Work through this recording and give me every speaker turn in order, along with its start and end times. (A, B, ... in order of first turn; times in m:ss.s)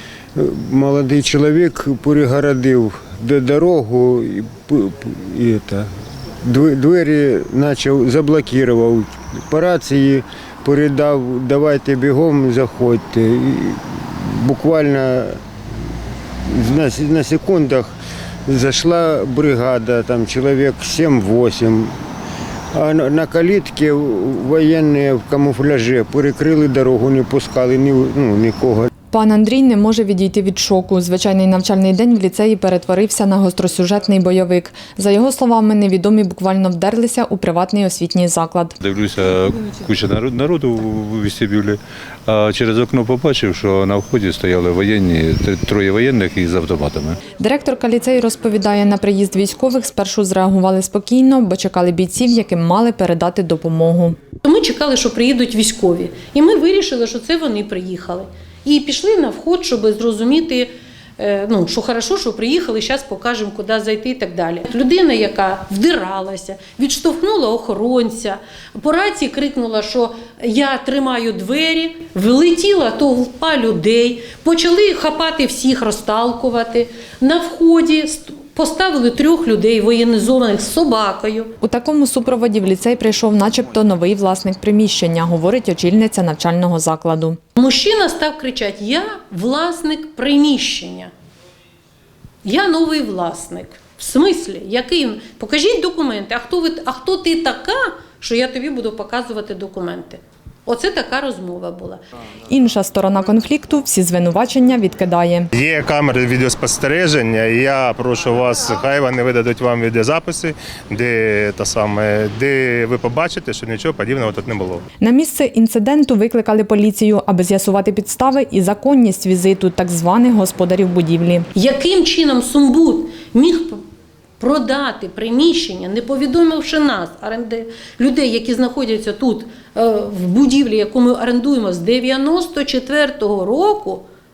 0:00.4-0:05.9 A
0:06.4-0:15.4 A
0:16.5-0:17.9 A
0:18.5-0:22.0 A
0:22.7-0:28.9 A
0:29.1-0:38.7 B
0:38.8-0:47.2 C
0:47.4-0:54.2 B
0:54.4-1:21.5 D
1:21.6-1:27.4 B
1:27.6-1:31.1 D
1:32.4-1:42.0 D
1:42.5-1:45.5 B
1:45.5-1:54.8 E
1:55.0-2:01.5 B
2:01.5-2:03.8 D
2:04.4-2:14.1 D